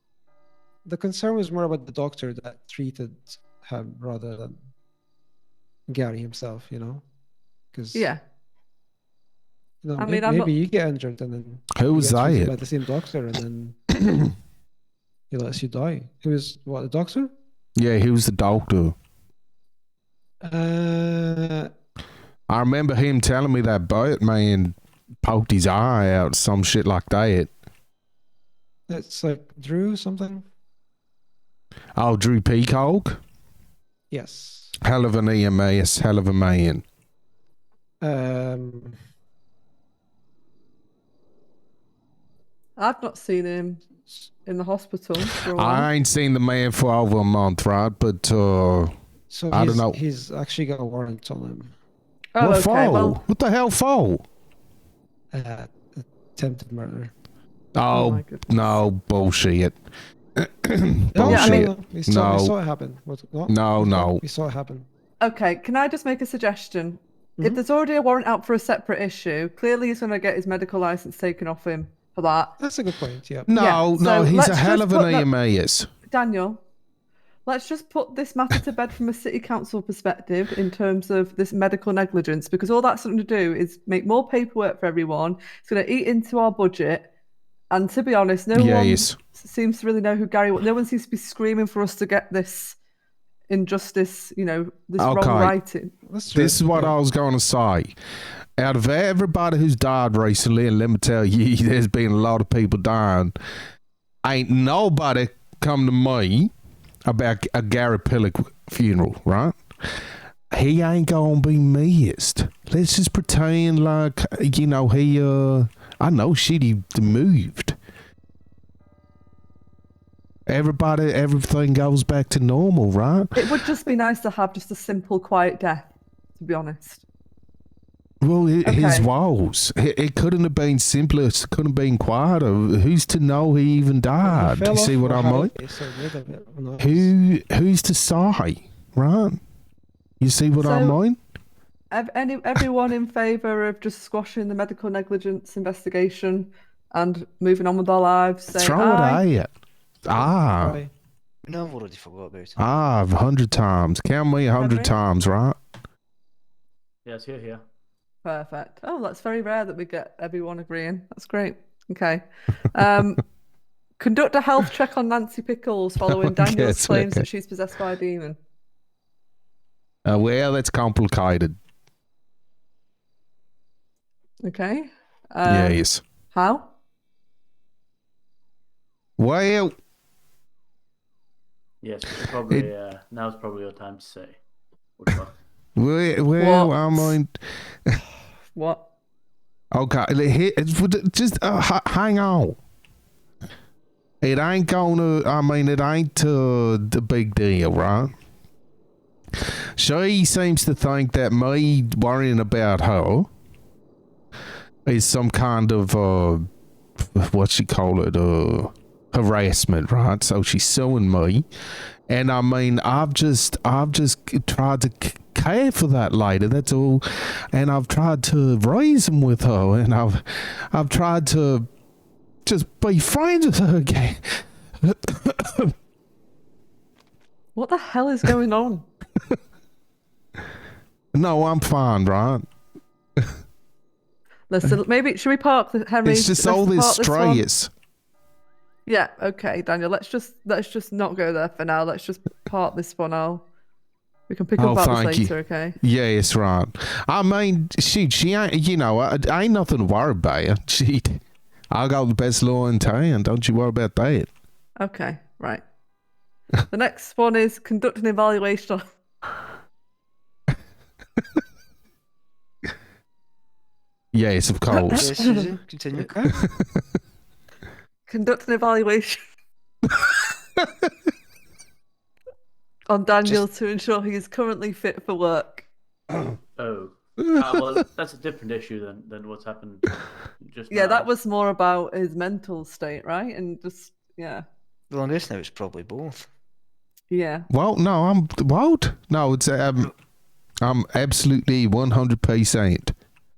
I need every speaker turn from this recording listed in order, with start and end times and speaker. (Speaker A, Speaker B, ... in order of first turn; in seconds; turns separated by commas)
Speaker A: 0.8-4.6, Speaker A: 5.9-7.0, Speaker A: 7.7-8.1, Speaker B: 7.9-8.2, Speaker A: 9.8-14.0, Speaker B: 10.0-10.5, Speaker C: 11.8-12.5, Speaker A: 15.3-17.3, Speaker C: 17.8-18.9, Speaker A: 20.4-21.7, Speaker C: 22.5-27.5, Speaker A: 28.9-30.4, Speaker C: 31.9-33.2, Speaker A: 34.1-34.7, Speaker C: 34.8-36.8, Speaker A: 38.0-39.0, Speaker B: 42.8-43.8, Speaker B: 44.4-45.9, Speaker C: 45.5-48.9, Speaker A: 49.3-51.7, Speaker C: 49.5-50.0, Speaker B: 52.3-53.2, Speaker C: 52.4-54.2, Speaker A: 55.3-57.1, Speaker C: 57.7-59.8, Speaker B: 57.9-58.8, Speaker C: 60.4-62.5, Speaker A: 61.1-64.9, Speaker B: 61.3-61.6, Speaker C: 63.5-64.2, Speaker B: 65.2-72.5, Speaker A: 72.6-73.5, Speaker C: 73.5-75.9, Speaker B: 73.5-75.3, Speaker B: 76.1-76.6, Speaker B: 77.5-87.1, Speaker B: 87.7-92.8, Speaker C: 88.5-89.2, Speaker B: 93.5-95.9, Speaker C: 95.0-95.6, Speaker A: 96.0-97.0, Speaker C: 96.3-97.9, Speaker C: 98.6-103.3, Speaker C: 104.2-106.5, Speaker C: 107.0-109.5, Speaker C: 110.5-117.8, Speaker C: 120.5-123.3, Speaker B: 123.3-127.0, Speaker C: 128.2-135.5, Speaker B: 128.6-129.1, Speaker A: 134.2-137.1, Speaker C: 136.8-139.4, Speaker C: 140.2-141.2, Speaker B: 140.6-141.0, Speaker B: 141.9-149.2, Speaker C: 148.5-149.5, Speaker C: 150.0-150.8, Speaker A: 150.1-150.9, Speaker D: 151.5-152.6, Speaker C: 152.6-155.6, Speaker B: 154.6-154.9, Speaker E: 157.0-157.6, Speaker B: 158.2-163.2, Speaker B: 164.0-168.4, Speaker C: 166.1-167.2, Speaker C: 170.0-171.6, Speaker B: 174.4-176.7, Speaker C: 175.4-176.0, Speaker C: 179.2-179.7, Speaker E: 181.8-184.4, Speaker E: 184.9-185.3, Speaker C: 185.8-188.0, Speaker B: 186.4-187.2, Speaker B: 188.5-188.8, Speaker C: 189.7-192.6, Speaker C: 194.2-198.1, Speaker C: 199.4-203.3, Speaker C: 204.8-206.5, Speaker C: 207.0-211.4, Speaker C: 212.1-221.7, Speaker C: 222.4-225.7, Speaker B: 227.5-228.8, Speaker C: 231.1-232.5, Speaker B: 234.5-237.4, Speaker C: 236.0-237.7, Speaker B: 238.8-243.4, Speaker B: 244.3-245.8, Speaker C: 244.6-251.2, Speaker C: 251.7-254.3, Speaker B: 254.8-255.6, Speaker B: 256.7-258.8, Speaker C: 264.1-265.2, Speaker B: 264.7-265.5, Speaker D: 264.9-266.1, Speaker A: 265.9-266.3, Speaker C: 266.4-266.8, Speaker B: 268.1-269.2, Speaker C: 269.8-270.9, Speaker B: 272.9-275.6, Speaker E: 276.6-281.1, Speaker B: 280.7-284.4, Speaker D: 284.9-286.3, Speaker B: 287.1-287.5, Speaker C: 287.5-289.9, Speaker C: 290.6-292.9